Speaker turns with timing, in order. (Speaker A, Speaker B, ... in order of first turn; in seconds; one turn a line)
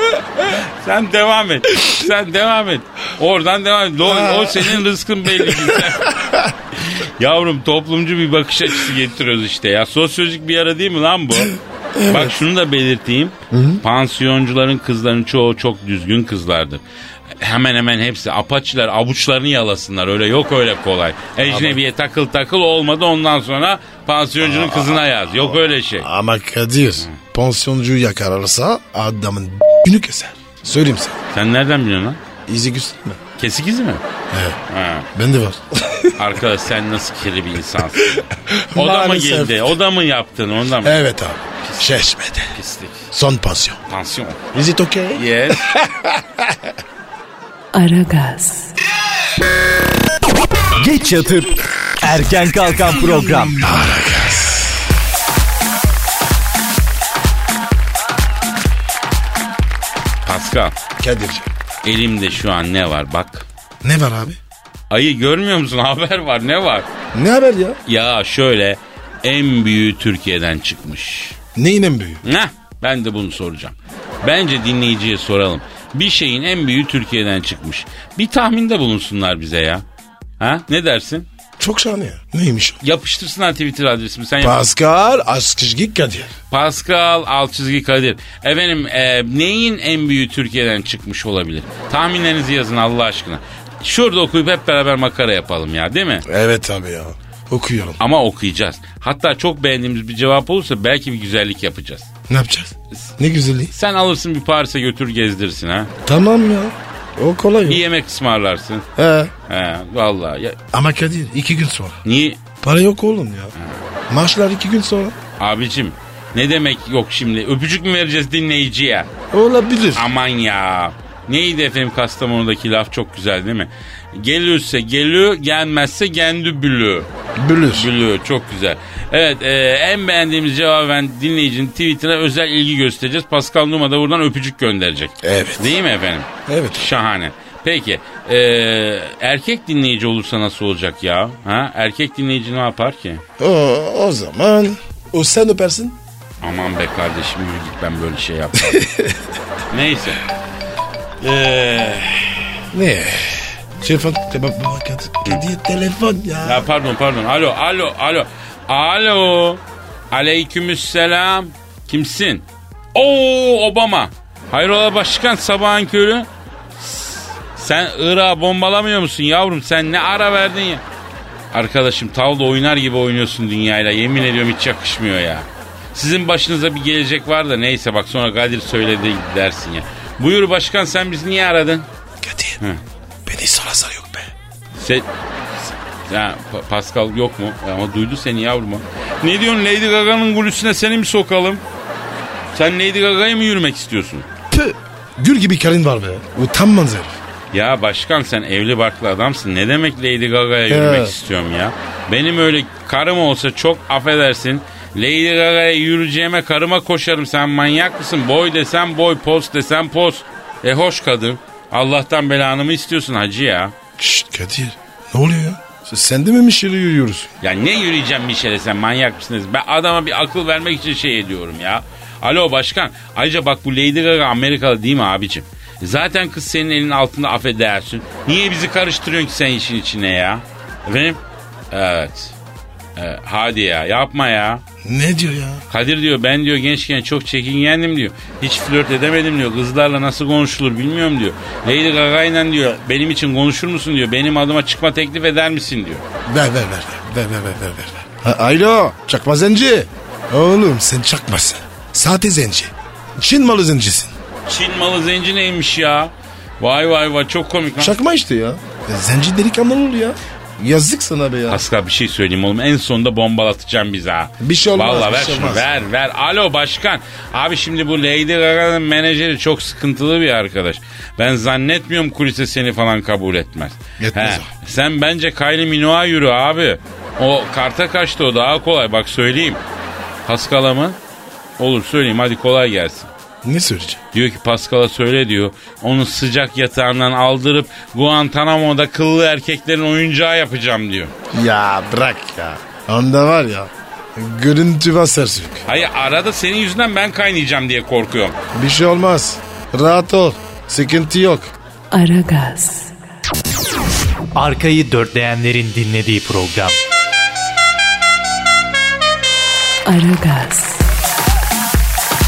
Speaker A: 0.4-6.2
Speaker B: 4.0-4.8
Speaker B: 5.4-6.5
Speaker A: 6.8-11.5
Speaker B: 11.4-12.4
Speaker A: 12.1-16.8
Speaker B: 13.5-13.8
Speaker A: 17.4-26.1
Speaker B: 21.4-21.8
Speaker B: 24.4-31.2
Speaker A: 31.3-32.2
Speaker B: 32.5-33.2
Speaker A: 33.4-34.0
Speaker B: 34.3-34.6
Speaker A: 34.7-35.1
Speaker B: 35.1-36.2
Speaker A: 36.2-41.0
Speaker B: 38.0-39.7
Speaker B: 40.8-42.5
Speaker A: 41.6-42.0
Speaker A: 42.5-43.1
Speaker B: 43.1-43.8
Speaker A: 43.9-44.4
Speaker B: 44.5-46.7
Speaker A: 45.1-45.7
Speaker C: 47.7-48.7
Speaker D: 50.8-53.6
Speaker B: 53.5-54.8
Speaker A: 60.2-60.7
Speaker B: 61.0-61.5
Speaker A: 61.8-63.5
Speaker B: 63.8-64.4
Speaker A: 64.9-66.9
Speaker B: 67.1-67.8
Speaker A: 67.8-71.4
Speaker B: 71.5-72.2
Speaker A: 72.2-79.8
Speaker A: 80.4-81.3
Speaker B: 81.6-82.8
Speaker A: 82.8-84.6
Speaker B: 84.4-86.3
Speaker A: 86.5-96.2
Speaker B: 96.3-98.0
Speaker A: 98.0-102.1
Speaker B: 102.3-103.7
Speaker A: 103.7-105.9
Speaker B: 106.0-107.8
Speaker A: 107.6-108.8
Speaker B: 109.0-109.3
Speaker A: 109.5-110.6
Speaker B: 110.7-112.0
Speaker A: 112.0-112.4
Speaker B: 112.6-113.5
Speaker A: 113.5-113.8
Speaker B: 114.1-115.2
Speaker A: 115.4-119.1
Speaker B: 119.3-120.1
Speaker A: 119.9-127.1
Speaker B: 127.3-127.9
Speaker A: 127.7-143.2
Speaker B: 135.2-135.8
Speaker B: 136.5-136.9
Speaker B: 143.4-146.0
Speaker A: 146.4-148.9
Speaker B: 148.7-149.2
Speaker A: 149.7-150.2
Speaker A: 151.2-152.4
Speaker B: 152.7-156.7
Speaker A: 156.4-170.8
Speaker A: 171.5-181.9
Speaker B: 182.2-182.6
Speaker B: 183.2-184.3
Speaker A: 184.8-185.1
Speaker A: 185.6-191.6
Speaker A: 192.5-194.3
Speaker B: 194.5-197.2
Speaker A: 197.5-213.7
Speaker B: 200.7-201.1
Speaker B: 214.0-217.3
Speaker A: 217.4-231.2
Speaker A: 231.7-232.3
Speaker A: 232.9-234.6
Speaker B: 234.8-235.6
Speaker A: 235.7-246.0
Speaker B: 246.2-254.1
Speaker A: 254.5-257.9
Speaker B: 257.8-261.6
Speaker A: 261.5-279.6
Speaker B: 264.4-265.7
Speaker B: 274.0-274.5
Speaker A: 280.2-281.0
Speaker A: 281.6-283.1
Speaker B: 283.4-284.0
Speaker A: 284.1-291.1
Speaker B: 291.3-295.6
Speaker A: 295.7-298.4
Speaker B: 298.5-301.5
Speaker C: 301.9-302.9
Speaker D: 304.3-306.8
Speaker C: 309.9-310.8